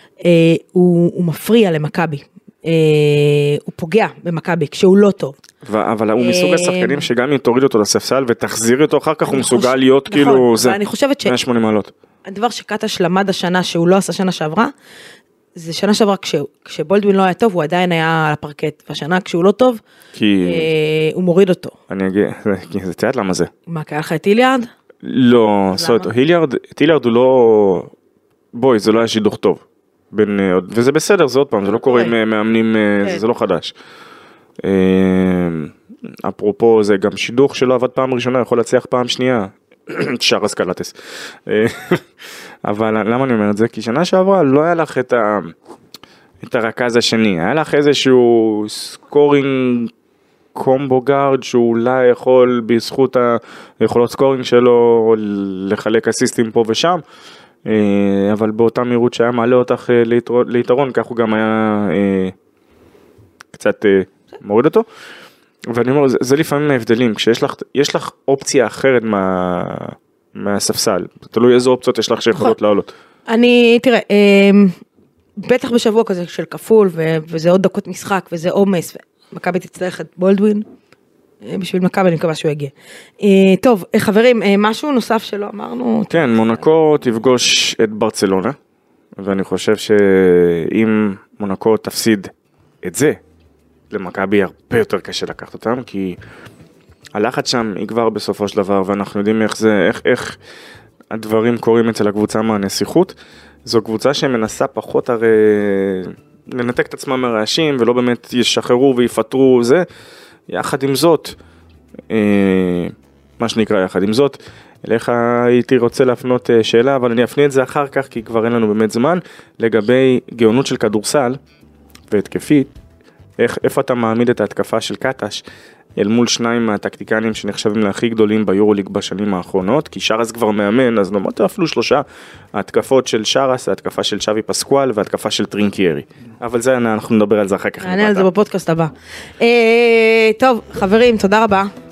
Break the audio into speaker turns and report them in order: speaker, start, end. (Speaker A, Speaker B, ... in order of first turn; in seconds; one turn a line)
Speaker A: 0.2-5.3
Speaker B: 5.6-11.9
Speaker A: 6.2-7.1
Speaker A: 9.2-11.4
Speaker A: 12.2-14.7
Speaker A: 15.5-19.8
Speaker B: 20.1-20.7
Speaker A: 20.4-21.7
Speaker B: 21.9-23.5
Speaker A: 23.7-24.7
Speaker B: 25.0-27.9
Speaker A: 25.7-26.1
Speaker B: 28.5-33.7
Speaker A: 31.9-32.1
Speaker B: 34.6-35.7
Speaker B: 36.2-40.9
Speaker B: 41.5-42.0
Speaker B: 42.6-45.5
Speaker B: 46.4-49.9
Speaker B: 50.5-57.0
Speaker B: 57.6-62.3
Speaker B: 63.5-64.8
Speaker B: 65.7-72.9
Speaker A: 73.3-74.8
Speaker A: 75.4-80.7
Speaker A: 81.4-86.6
Speaker B: 86.1-88.5
Speaker B: 89.2-92.3
Speaker B: 92.8-93.2
Speaker B: 93.9-96.2
Speaker B: 97.1-100.3
Speaker B: 101.1-109.8
Speaker B: 110.5-111.3
Speaker B: 112.1-121.4
Speaker B: 122.1-122.7
Speaker B: 123.4-125.4
Speaker B: 126.0-138.3
Speaker A: 137.8-141.7